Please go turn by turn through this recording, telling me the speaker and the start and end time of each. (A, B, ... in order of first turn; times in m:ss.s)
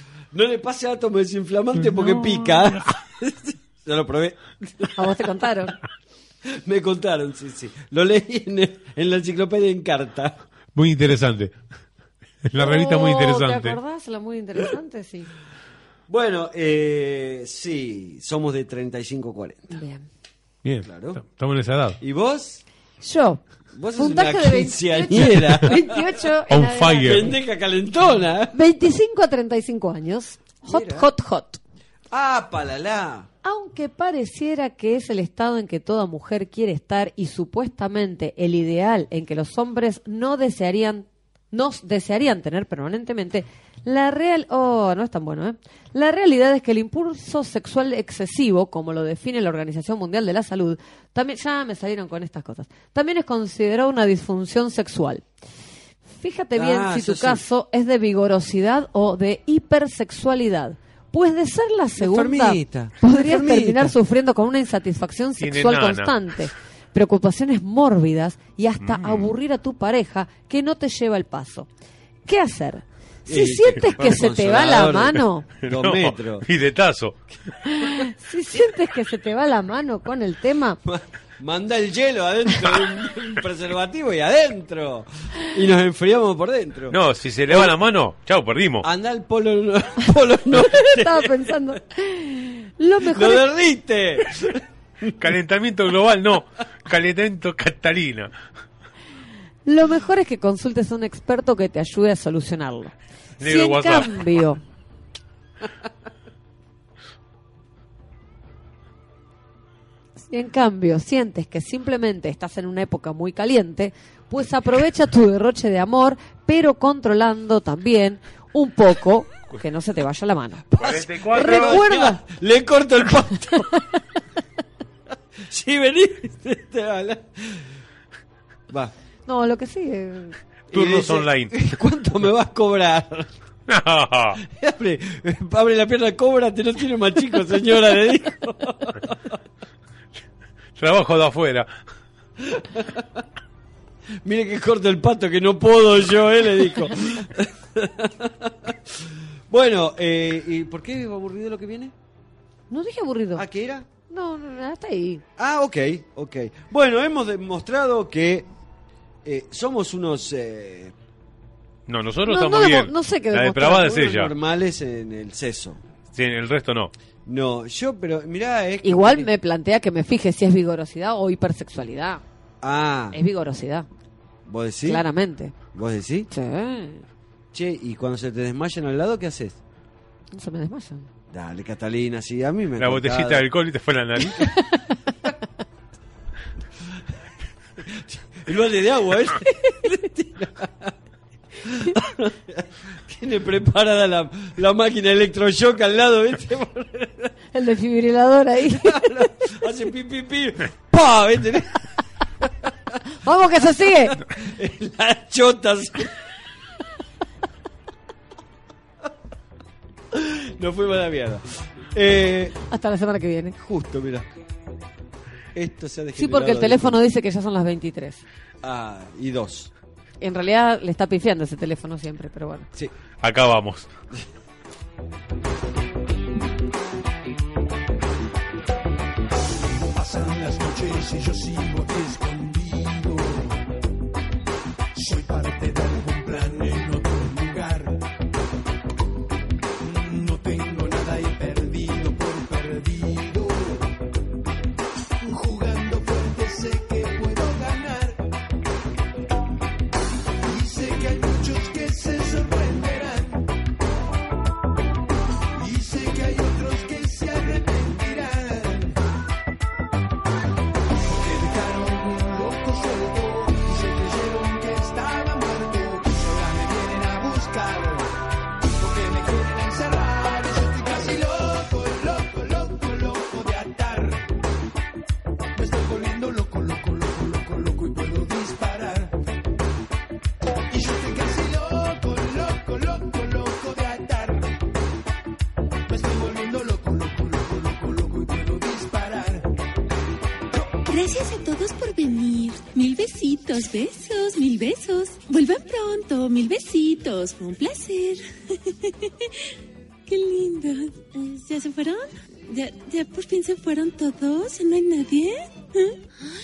0:00.3-0:05.0 A
0:01.8-0:02.8 B
0:04.9-0:05.8 C
0:06.4-0:10.4 A
0:10.7-0:11.6 B
0:12.4-0:13.8 B
0:12.6-0:15.3 C
0:16.1-0:19.8 A
0:19.7-0:20.1 C
0:20.6-0:22.0 B
0:20.8-0:21.2 A
0:22.0-0:22.6 A
0:23.0-0:23.4 C
0:23.7-0:26.0 A
0:23.9-0:27.3 C
0:26.5-0:27.3 B
0:27.0-0:28.6 A
0:28.5-0:31.6 C
0:30.6-0:31.1 A
0:32.1-0:33.3 A
0:33.4-0:55.2 C
0:56.2-1:11.7 C
0:56.5-0:57.4 A
1:02.0-1:04.0 A
1:05.4-1:06.4 B
1:08.8-1:09.3 B
1:12.2-1:15.5 C
1:13.2-1:16.5 A
1:15.6-1:17.2 B
1:17.6-1:20.8 C
1:20.8-1:27.0 A
1:26.9-1:28.9 B
1:27.5-1:27.7 A
1:28.8-1:31.8 A
1:30.4-1:33.4 C
1:33.0-1:35.1 A
1:35.2-1:38.3 B
1:39.6-1:44.6 C
1:43.4-1:44.2 B
1:50.2-2:00.7 C
2:00.7-2:03.7 A
2:00.8-2:01.8 B
2:01.3-2:02.2 C
2:05.4-2:07.6 A
2:09.2-2:10.4 C
2:10.7-2:11.6 B
2:10.7-2:13.3 A
2:13.7-2:14.4 B
2:14.4-2:19.4 A
2:20.8-2:21.7 B
2:22.4-2:23.1 A
2:24.2-2:31.9 A
2:32.7-2:33.4 C
2:33.3-2:33.9 A
2:34.1-2:35.2 C
2:35.4-2:38.5 A
2:39.2-2:40.9 A
2:41.9-2:44.3 B
2:42.3-2:43.9 C
2:43.6-2:45.8 A
2:46.1-2:46.9 B
2:47.2-2:49.3 A
2:48.8-2:52.2 C
2:52.6-2:53.2 A
2:53.1-2:53.9 C
2:54.4-2:55.0 A
2:54.8-2:55.5 C
2:55.7-2:56.3 A
2:56.3-2:57.0 C
2:57.5-2:59.6 A
3:00.3-3:01.1 C
3:01.3-3:03.4 A
3:02.8-3:04.5 B
3:04.4-3:05.0 C
3:07.8-3:10.9 A
3:11.6-3:17.3 A
3:17.5-3:19.5 C
3:18.7-3:21.8 A
3:22.4-3:22.7 A
3:23.2-3:24.2 C
3:24.0-3:26.1 A
3:30.1-3:32.6 A
3:32.7-3:33.6 C
3:33.6-3:34.3 A
3:35.5-3:37.0 A
3:36.2-3:38.2 C
3:38.6-3:39.7 A
3:40.2-3:42.7 C
3:43.2-3:43.9 B
3:49.8-3:53.6 D
3:54.9-3:58.0 D
3:59.8-4:03.9 D
4:05.2-4:08.2 D
4:10.4-4:13.5 D
4:15.6-4:19.0 D
4:21.1-4:28.1 D
4:28.8-4:34.3 D
4:35.6-4:39.2 D
4:40.7-4:44.5 D
4:45.9-4:49.5 D
4:50.9-4:59.3 E
5:00.1-5:06.0 E